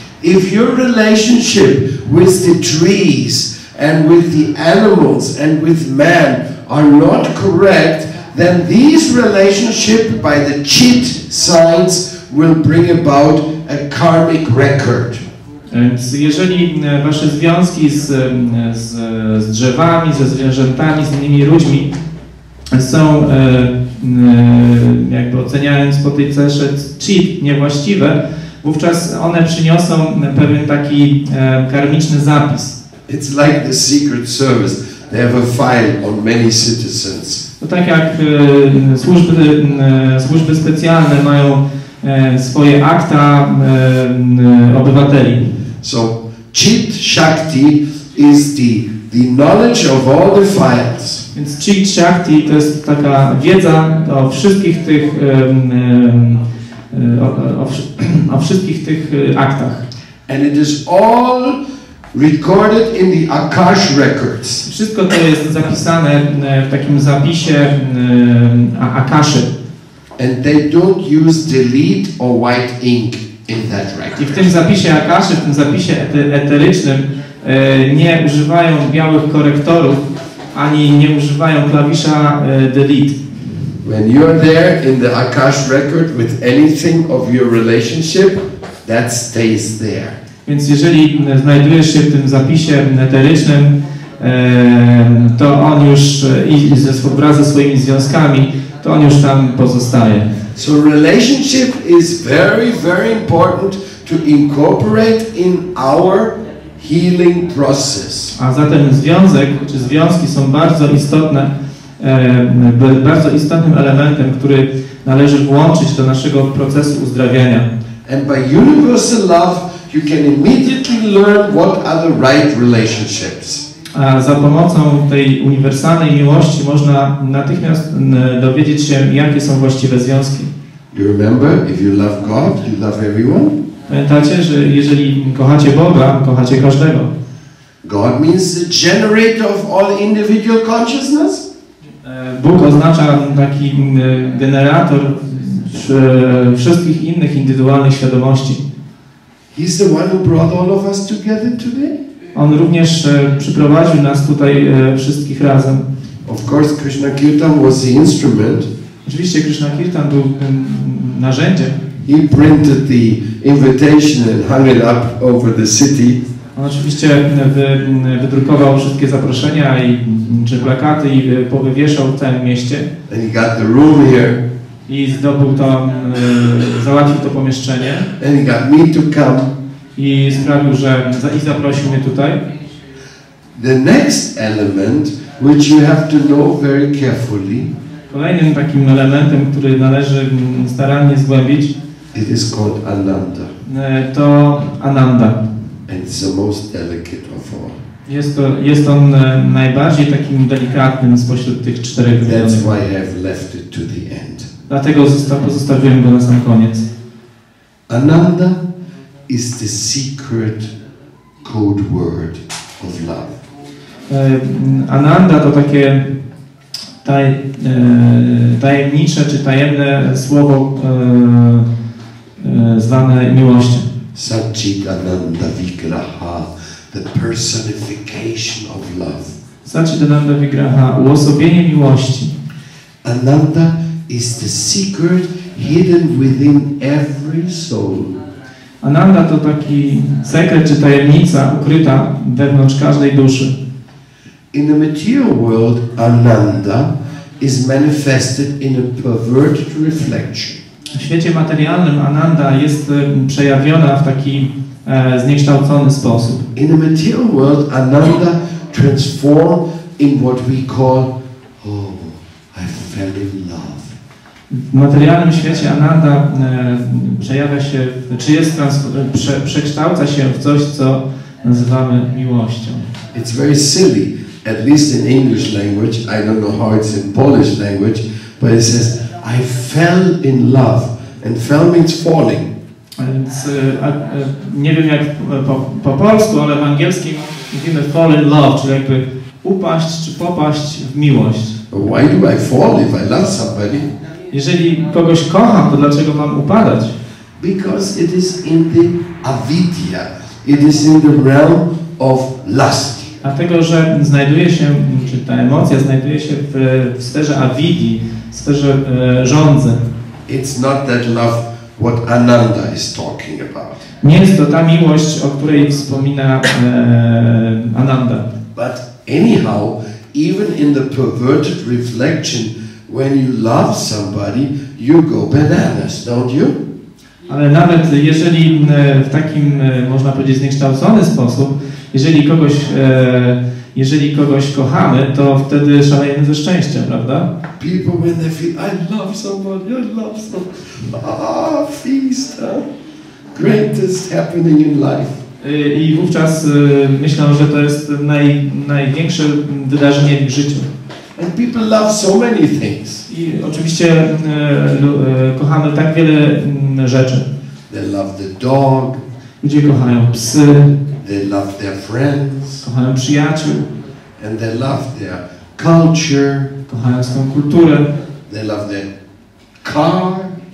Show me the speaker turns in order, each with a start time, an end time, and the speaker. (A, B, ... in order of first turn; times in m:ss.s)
0:00.2-0:15.2 A
0:15.7-0:21.9 B
0:22.7-0:32.8 B
0:33.1-0:37.4 A
0:37.6-0:45.6 B
0:45.8-0:51.3 A
0:51.3-0:59.8 B
1:00.3-1:01.6 A
1:02.1-1:04.7 A
1:04.7-1:09.5 B
1:10.2-1:14.5 A
1:14.2-1:23.2 B
1:23.8-1:30.2 A
1:30.5-1:40.3 B
1:40.5-1:48.4 A
1:48.4-1:57.7 B
1:58.1-2:03.7 A
2:03.9-2:10.5 B
2:10.9-2:13.6 A
2:13.9-2:17.1 B
2:17.8-2:21.4 A
2:22.0-2:28.6 B
2:29.5-2:31.9 A
2:32.3-2:35.9 B
2:36.2-2:38.7 A
2:39.0-2:41.8 B
2:42.0-2:46.2 A
2:46.6-2:52.9 B
2:53.1-2:54.4 A
2:54.9-2:58.1 B
2:58.2-2:59.6 A
3:00.0-3:02.4 B
3:03.6-3:07.7 A
3:08.1-3:11.8 B
3:12.1-3:13.5 A
3:13.6-3:15.4 B
3:15.9-3:17.8 A
3:18.1-3:22.7 B
3:22.2-3:24.5 A
3:24.7-3:26.9 B
3:27.9-3:28.6 A
3:29.3-3:30.7 A
3:31.4-3:33.4 A
3:34.1-3:36.2 B
3:37.0-3:41.7 B
3:42.4-3:43.9 B
3:44.1-3:49.4 A
3:49.6-3:52.4 B
3:53.0-3:58.2 A
3:58.8-4:03.6 B
4:04.5-4:10.6 A
4:10.9-4:16.5 B
4:16.6-4:23.9 A
4:24.5-4:32.9 B
4:33.1-4:42.5 A
4:43.0-4:51.6 B
4:51.7-4:53.9 A
4:54.3-4:57.0 B
4:57.4-5:03.2 A
5:03.2-5:09.8 B
5:10.3-5:13.8 A
5:14.0-5:18.3 B
5:18.5-5:26.6 A
5:27.3-5:37.3 B
5:37.6-5:42.7 A
5:43.3-5:45.2 A
5:45.4-5:50.7 B
5:51.2-5:53.1 A
5:53.1-5:57.3 B
5:57.7-5:59.0 A
5:59.4-6:00.8 B
6:01.0-6:02.6 A
6:02.6-6:03.7 B
6:04.2-6:06.5 A
6:06.7-6:07.9 B
6:08.3-6:08.9 A
6:09.6-6:10.3 A